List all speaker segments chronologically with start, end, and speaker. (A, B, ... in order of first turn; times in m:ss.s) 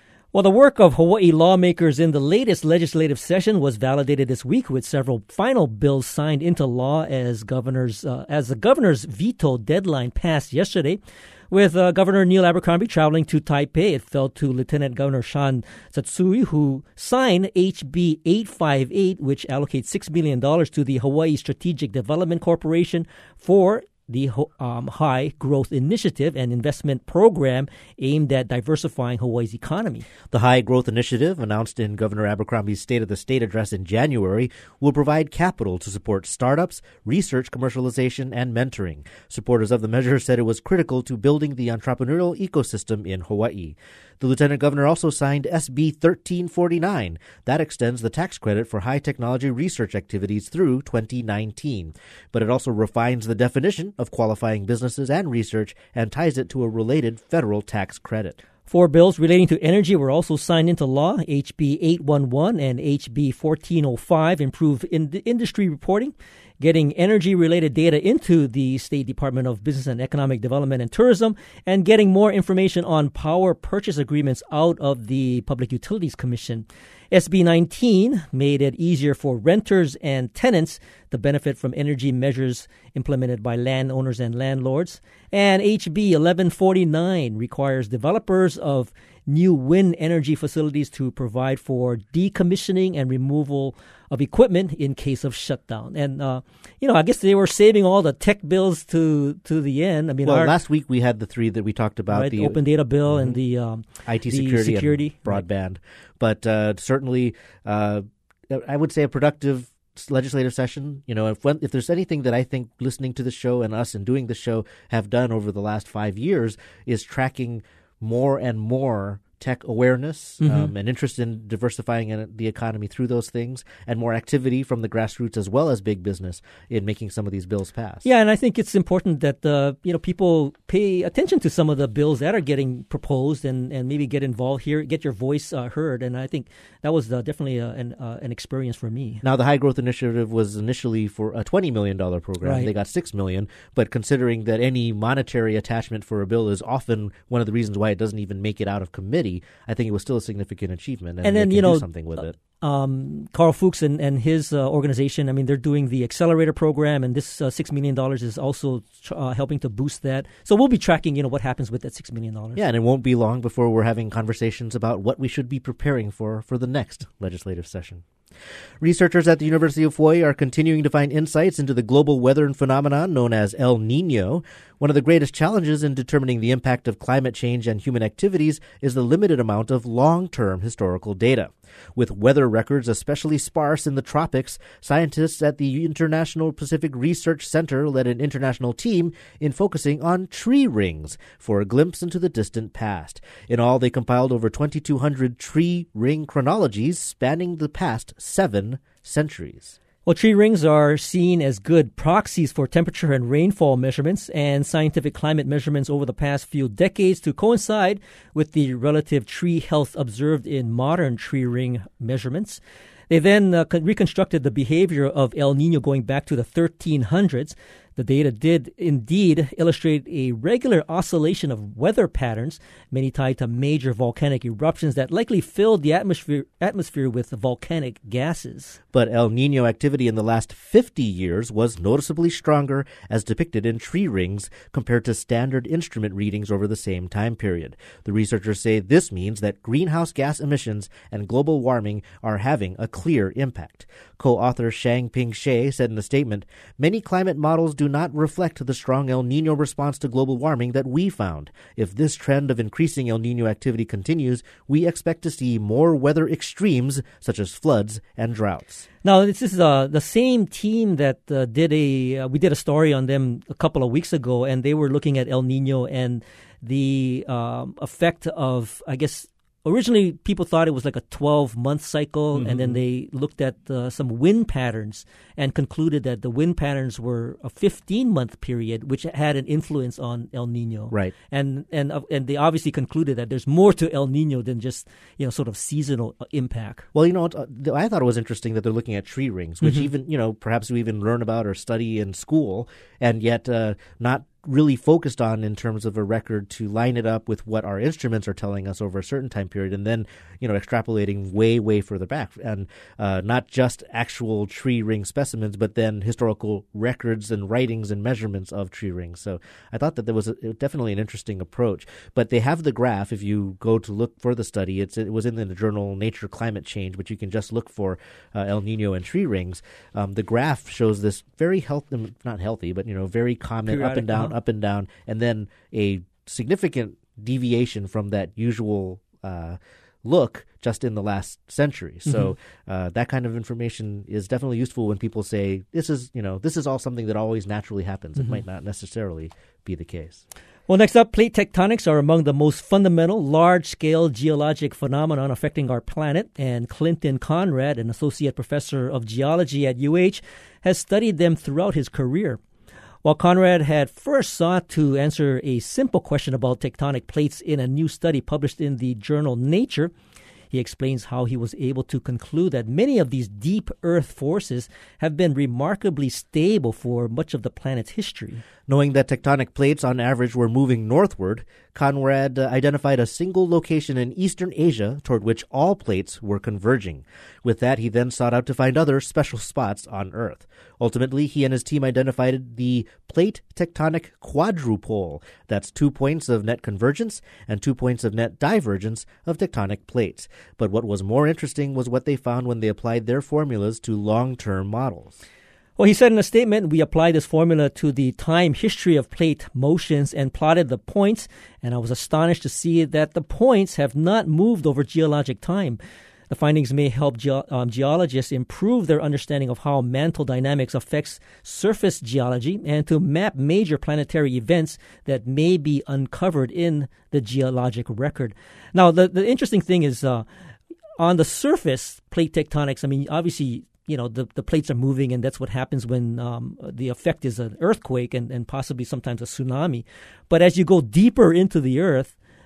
0:00.3-0:30.1 A
0:30.3-0:58.4 B
0:58.7-1:40.5 A
1:40.2-1:43.4 B
1:42.1-1:45.4 A
1:44.0-2:08.0 B
2:00.4-2:00.7 A
2:08.0-2:19.2 A
2:19.2-2:32.4 B
2:22.4-2:22.7 A
2:31.2-2:42.6 A
2:42.6-2:48.0 B
2:48.8-3:19.8 B
3:20.0-3:48.8 A
3:48.9-4:18.8 B
4:19.0-4:46.9 A
4:32.3-4:32.8 B
4:46.9-5:40.2 B
4:49.6-4:49.9 A
5:23.7-5:24.3 A
5:32.0-5:32.3 A
5:40.7-5:52.4 A
5:53.0-5:59.9 A
6:00.5-6:08.4 A
6:08.7-6:35.2 B
6:35.8-6:45.8 A
6:46.3-7:00.2 A
7:01.0-7:12.1 A